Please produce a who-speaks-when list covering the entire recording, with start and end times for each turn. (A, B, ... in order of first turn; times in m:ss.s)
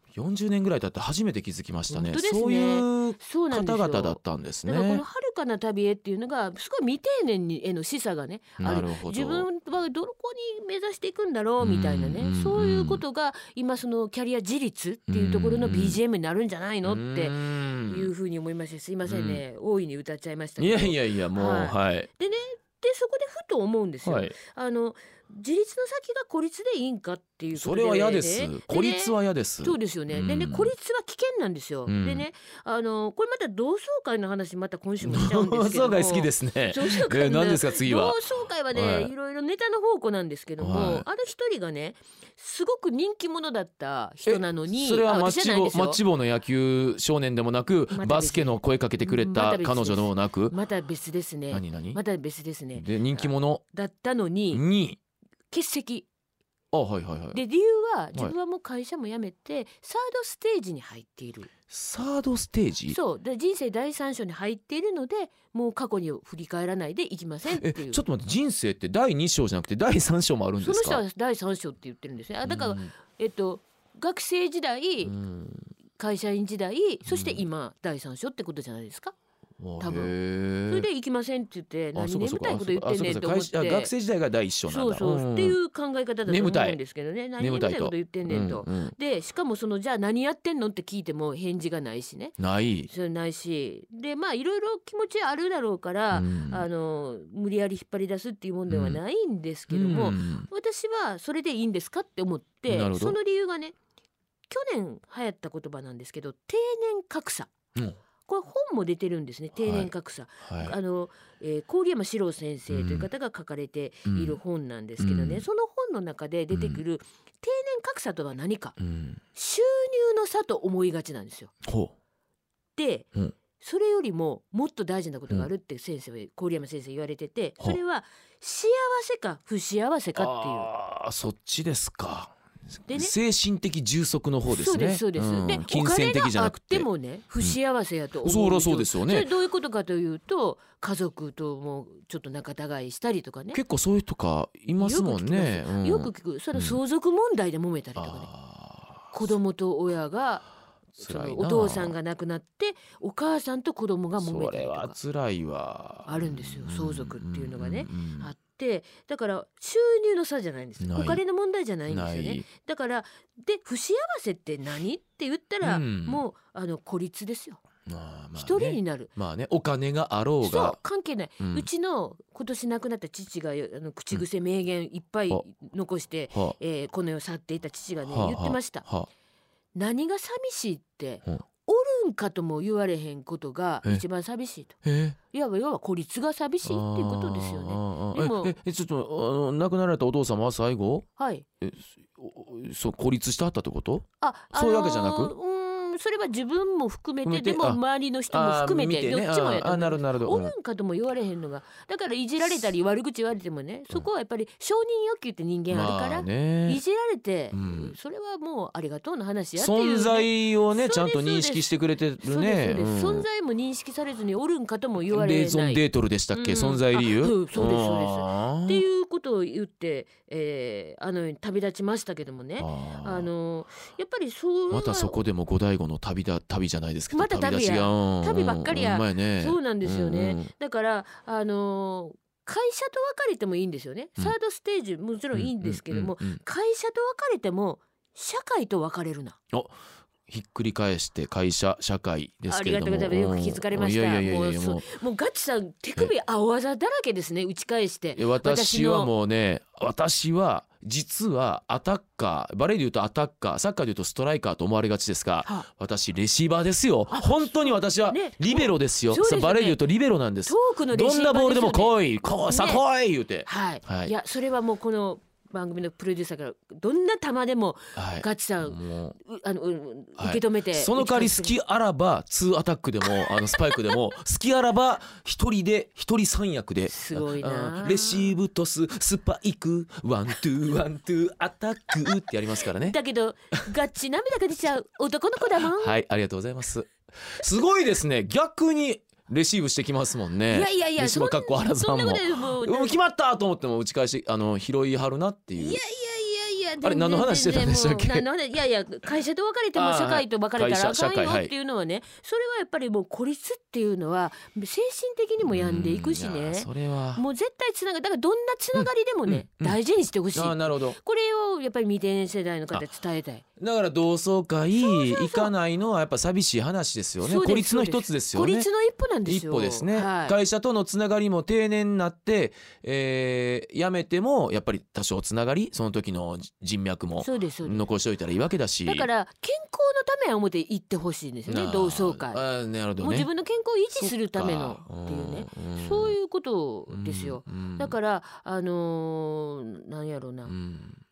0:00.1-0:05.0 A
0:01.9-0:46.0 B
0:08.6-0:09.5 A
0:11.6-0:13.0 A
0:15.1-0:16.0 A
0:16.8-0:18.1 A
0:19.0-0:19.4 A
0:20.6-0:22.1 A
0:24.0-0:24.4 A
0:27.5-0:30.7 A
0:31.9-0:32.3 A
0:35.0-0:38.2 A
0:38.7-0:39.1 A
0:40.6-0:41.1 A
0:44.2-0:50.5 A
0:47.9-0:54.6 B
0:51.5-0:52.0 A
0:52.7-0:53.6 A
0:54.5-0:55.0 A
0:55.5-0:56.1 B
0:56.7-0:57.4 A
0:57.3-1:01.5 B
1:01.7-1:03.0 A
1:02.9-1:08.0 B
1:07.5-1:11.0 A
1:10.6-1:15.2 B
1:12.4-1:12.9 A
1:15.0-1:15.7 A
1:16.0-1:19.1 B
1:17.0-1:17.4 A
1:19.6-1:20.9 A
1:19.8-1:23.9 B
1:21.9-1:25.6 A
1:24.6-1:43.7 B
1:26.2-1:26.8 A
1:27.4-1:28.9 A
1:32.4-1:32.9 A
1:36.1-1:36.6 A
1:38.7-1:39.0 A
1:39.7-1:40.5 A
1:42.7-1:43.2 A
1:44.5-1:47.5 B
1:48.2-1:58.8 B
1:49.6-1:49.9 A
1:50.4-1:50.8 A
1:52.7-1:53.1 A
1:54.1-1:54.4 A
1:55.0-1:55.4 A
1:56.5-1:56.8 A
1:58.8-1:59.2 A
1:59.3-2:01.5 B
2:01.6-2:01.9 A
2:02.8-2:10.7 B
2:10.1-2:16.9 A
2:12.9-2:13.1 B
2:14.5-2:23.6 B
2:18.2-2:19.3 A
2:23.5-2:26.8 A
2:24.8-2:28.3 B
2:28.0-2:29.3 A
2:29.1-2:35.0 B
2:31.0-2:32.0 A
2:34.2-2:38.3 A
2:36.0-2:47.6 B
2:40.8-2:41.2 A
2:41.9-2:42.4 A
2:45.6-2:46.2 A
2:47.9-2:50.8 A
2:48.4-2:49.1 B
2:50.4-2:58.8 B
2:51.4-2:51.7 A
2:58.0-2:59.1 A
2:59.7-3:04.8 B
3:04.8-3:05.2 A
3:05.3-3:08.5 B
3:06.6-3:11.1 A
3:11.2-3:11.4 B
3:11.6-3:15.4 A
3:14.2-3:45.2 B
3:17.2-3:20.5 A
3:25.7-3:26.8 A
3:27.5-3:27.9 A
3:29.6-3:33.2 A
3:35.0-3:38.8 A
3:42.6-3:43.3 A
3:44.7-3:50.5 A
3:47.1-3:59.4 B
3:55.3-3:56.4 A
4:00.3-4:04.9 A
4:02.5-4:09.1 B
4:08.1-4:24.1 A
4:17.1-4:19.8 B
4:20.4-4:22.8 B
4:23.4-4:31.6 B
4:28.0-4:29.2 A
4:30.2-4:43.0 A
4:33.2-4:33.9 B
4:36.9-4:38.4 B
4:42.8-4:46.0 B
4:45.6-4:55.8 A
4:50.5-4:53.0 B
4:55.6-5:13.4 B
4:56.8-4:58.3 A
4:59.7-5:01.5 A
5:05.4-5:07.2 A
5:08.7-5:09.8 A
5:10.3-5:11.0 A
5:13.6-5:18.7 A
5:14.8-5:15.5 B
5:17.2-5:20.4 B
5:19.2-5:29.1 A
5:27.2-5:27.9 B
5:28.8-5:32.4 B
5:31.5-5:33.3 A
5:33.0-5:40.6 B
5:33.9-5:36.2 A
5:36.9-5:37.9 A
5:40.5-5:41.0 A